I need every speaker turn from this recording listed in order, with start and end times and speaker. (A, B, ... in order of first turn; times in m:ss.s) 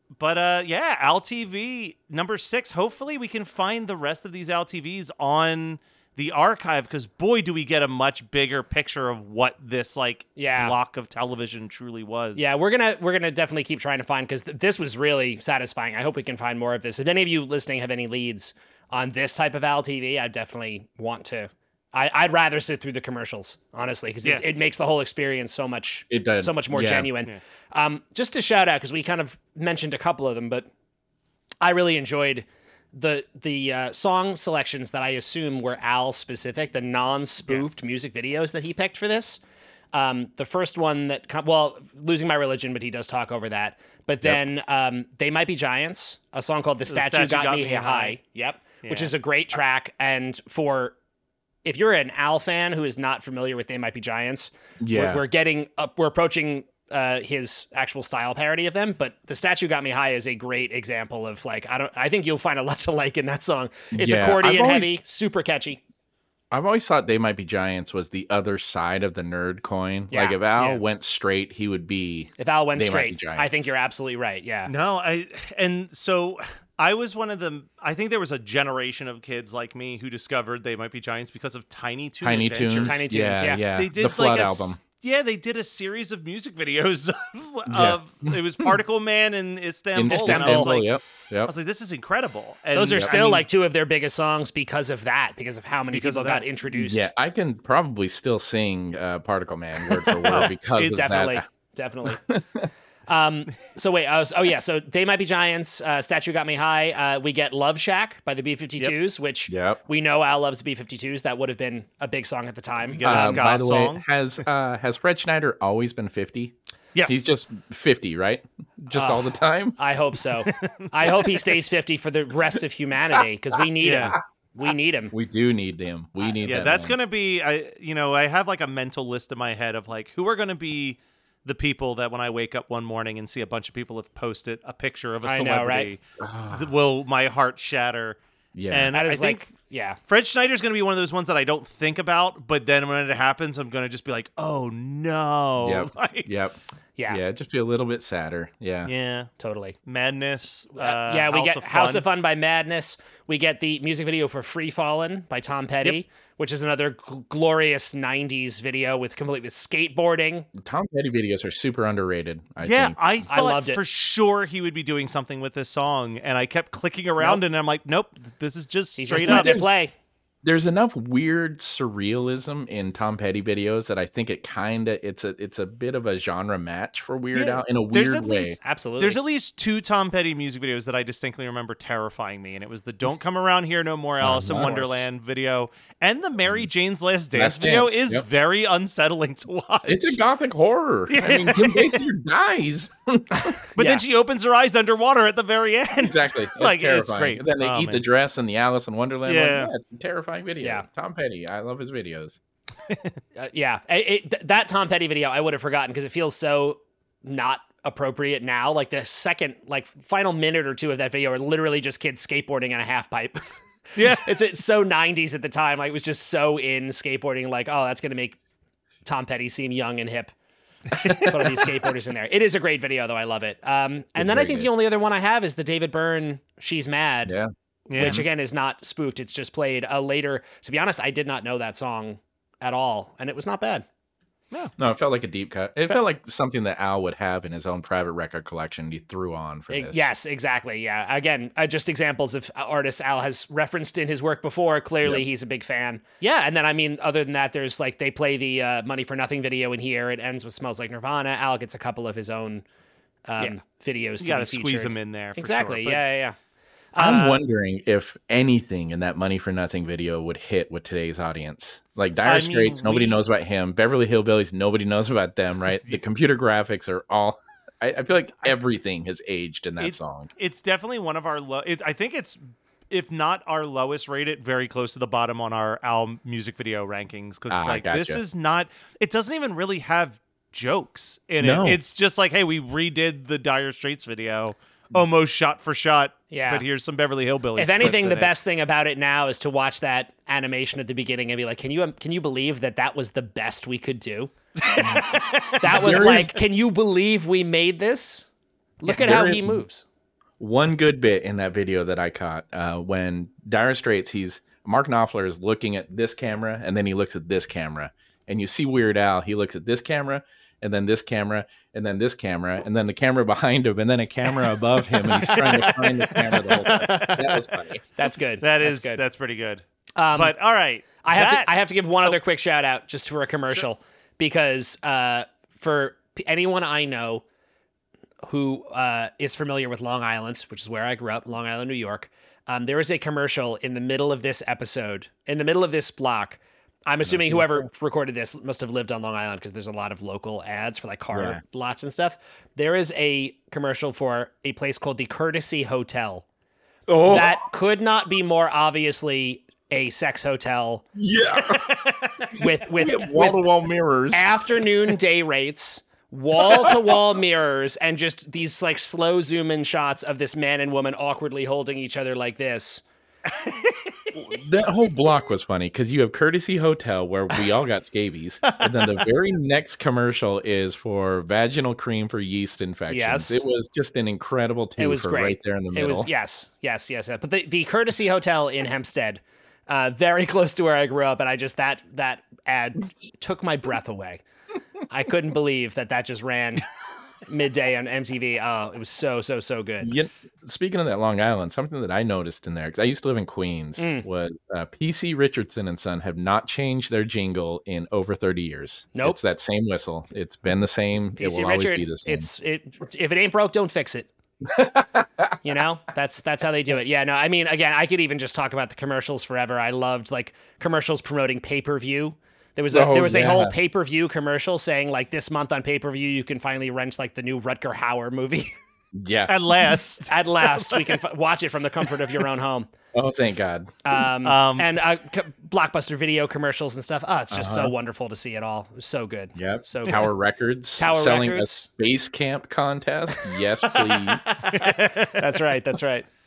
0:00.2-0:12.5 A
0:10.4-0:10.7 B
0:12.3-0:30.7 B
0:26.1-0:27.1 C
0:31.6-0:39.4 B
0:39.9-0:51.0 B
0:46.9-0:48.2 A
0:48.8-0:49.1 A
0:51.6-1:05.8 B
0:54.8-0:55.2 C
1:03.9-1:04.9 C
1:06.5-1:13.7 C
1:10.1-1:10.8 B
1:12.4-1:14.7 B
1:14.7-1:23.0 A
1:22.2-1:24.8 C
1:22.8-1:23.6 B
1:23.7-1:33.4 A
1:27.7-1:28.7 C
1:29.9-1:31.5 C
1:30.1-1:30.7 B
1:32.7-1:37.1 B
1:32.9-1:33.4 C
1:35.9-1:36.4 A
1:36.7-1:41.4 C
1:40.3-1:41.1 A
1:40.9-1:42.2 B
1:42.1-1:42.7 C
1:43.1-1:53.4 B
1:49.5-1:49.8 C
1:52.9-1:54.0 A
1:53.0-1:56.5 C
1:57.0-1:57.3 A
1:57.1-1:59.8 C
1:58.9-2:05.1 B
2:00.5-2:00.9 A
2:03.8-2:04.2 A
2:05.1-2:06.9 C
2:06.4-2:18.2 A
2:15.2-2:15.9 B
2:16.2-2:16.7 C
2:18.5-2:18.9 C
2:18.7-2:19.5 A
2:18.9-2:20.0 B
2:20.1-2:26.3 A
2:25.6-2:28.9 C
2:27.0-2:27.2 B
2:28.8-2:29.3 A
2:29.4-2:29.8 B
2:29.8-2:32.0 A
2:30.8-2:40.5 B
2:40.5-2:43.3 C
2:42.6-2:49.6 A
2:43.3-2:43.8 B
2:49.0-2:49.9 B
2:49.2-2:49.7 C
2:50.4-2:58.6 C
2:57.3-3:10.2 A
2:58.6-2:59.2 B
3:04.2-3:05.0 C
3:06.4-3:06.7 C
3:07.3-3:08.2 C
3:09.9-3:13.6 C
3:11.1-3:12.0 A
3:13.8-3:18.0 A
3:13.8-3:14.0 B
3:16.0-3:22.4 C
3:19.2-3:19.7 A
3:23.4-3:38.4 B
3:34.0-3:34.3 A
3:39.0-3:40.3 B
3:41.2-3:47.3 B
3:44.2-3:44.7 C
3:47.2-3:48.2 C
3:47.9-3:48.2 A
3:47.9-3:53.8 B
3:54.8-4:00.1 C
3:59.7-4:12.6 B
4:13.3-4:16.4 B
4:14.2-4:16.0 A
4:16.9-4:17.2 B
4:17.0-4:30.3 C
4:17.0-4:17.4 A
4:22.2-4:23.2 A
4:29.8-4:48.3 A
4:37.5-4:38.2 C
4:41.4-4:41.8 C
4:46.3-4:46.6 B
4:47.6-4:54.3 B
4:54.6-4:56.0 A
4:54.8-4:56.4 C
4:55.6-4:58.3 B
4:58.8-4:59.8 B
4:58.9-4:59.6 C
5:00.4-5:17.8 C
5:15.2-5:19.0 B
5:15.3-5:15.8 A
5:16.8-5:17.0 A
5:18.4-5:19.6 A
5:20.0-5:20.3 B
5:20.1-5:21.5 A
5:21.0-5:27.2 B
5:28.2-5:46.2 B
5:37.0-5:37.6 C
5:41.1-5:41.4 C
5:46.9-5:47.5 C
5:47.0-5:50.9 B
5:51.0-5:51.6 C
5:51.5-5:52.2 A
5:52.3-5:53.4 B
5:52.4-5:54.6 C
5:54.1-6:02.8 B
5:56.5-5:56.9 C
6:03.3-6:04.1 A
6:04.2-6:16.1 C
6:12.9-6:13.4 B
6:14.8-6:24.2 B
6:24.9-6:26.6 B
6:27.2-6:29.9 B
6:29.8-6:42.3 C
6:33.8-6:34.0 B
6:41.2-6:44.1 B
6:44.4-6:45.4 C
6:45.4-6:58.5 B
6:52.7-6:53.5 C
6:58.9-6:59.4 C
6:59.3-7:01.0 A
7:00.1-7:02.7 B
7:02.9-7:03.7 C
7:03.8-7:10.1 B
7:04.2-7:04.6 A
7:07.3-7:07.7 C
7:09.3-7:14.2 C
7:10.8-7:11.7 B
7:13.7-7:16.0 B
7:14.5-7:15.3 A